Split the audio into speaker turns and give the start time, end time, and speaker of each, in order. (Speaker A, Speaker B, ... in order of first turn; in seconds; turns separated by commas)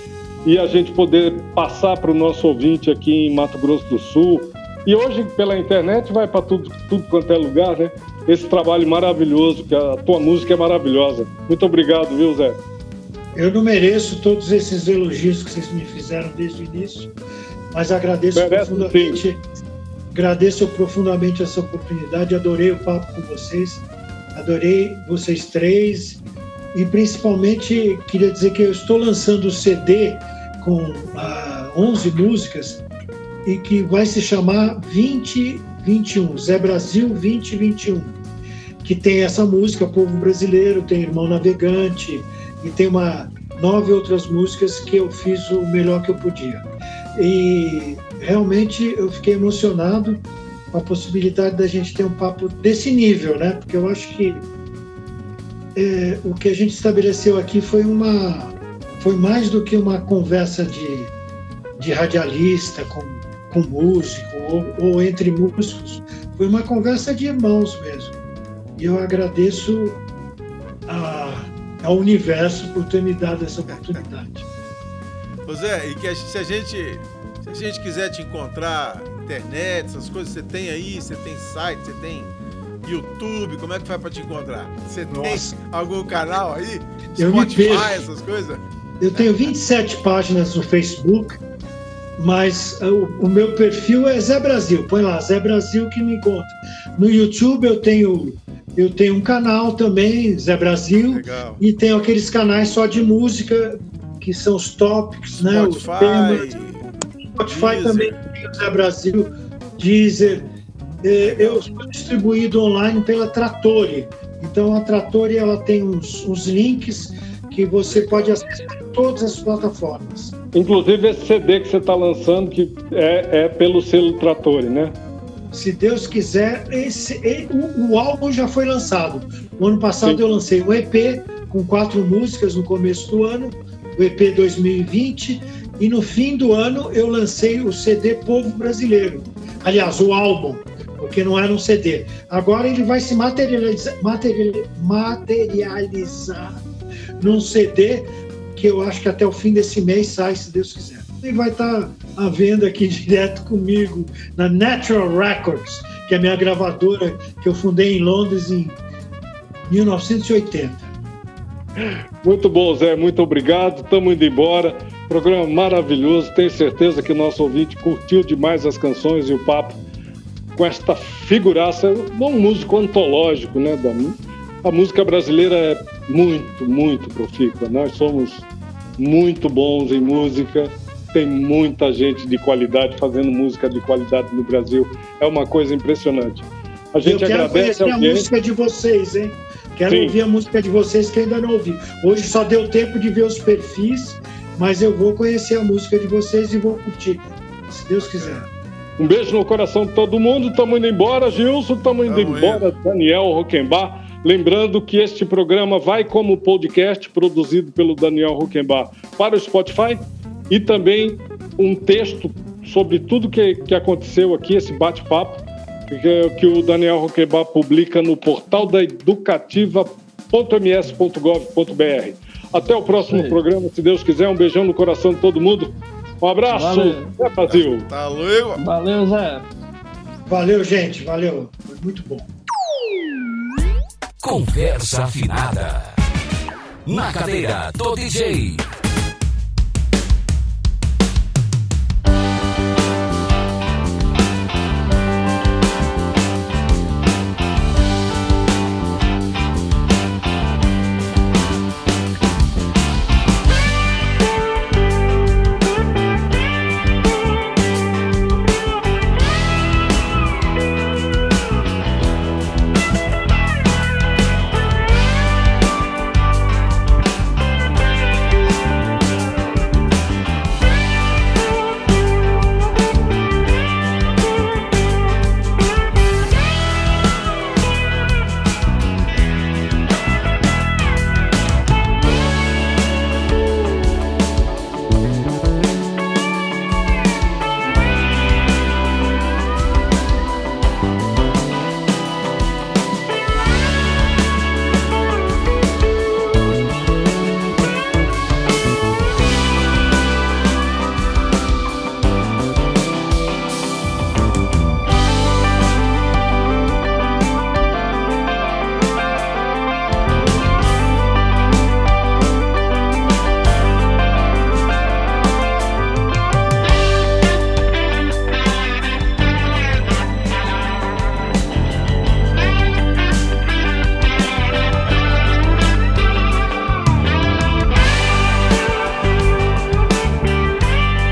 Speaker A: 0.4-12.6, Speaker B: 13.3-17.1, Speaker B: 17.7-19.4, Speaker A: 18.3-19.2, Speaker B: 20.1-26.2, Speaker B: 26.7-32.8, Speaker B: 33.4-38.2, Speaker B: 38.8-54.5, Speaker B: 55.7-61.1, Speaker B: 61.8-68.2, Speaker B: 68.8-70.0, Speaker B: 70.9-74.5, Speaker C: 75.5-89.5, Speaker B: 85.1-85.5, Speaker B: 87.2-88.0, Speaker B: 89.0-91.4, Speaker B: 92.2-106.6, Speaker C: 101.1-101.6, Speaker C: 105.3-106.9, Speaker B: 107.3-110.5, Speaker C: 107.5-108.2, Speaker B: 111.0-120.3, Speaker C: 111.2-111.6, Speaker C: 117.9-118.3, Speaker A: 120.5-124.9, Speaker B: 125.5-146.6, Speaker B: 147.2-158.8, Speaker B: 159.7-160.9, Speaker A: 162.2-169.8, Speaker A: 170.5-178.5, Speaker A: 179.0-188.3, Speaker B: 187.0-198.5, Speaker A: 189.9-190.2, Speaker C: 198.0-198.4, Speaker A: 199.0-227.9, Speaker C: 202.1-202.7, Speaker D: 222.9-223.4, Speaker D: 226.5-227.2, Speaker C: 227.4-228.6, Speaker D: 228.6-229.5, Speaker B: 230.2-232.3, Speaker E: 234.2-235.9, Speaker E: 236.8-238.6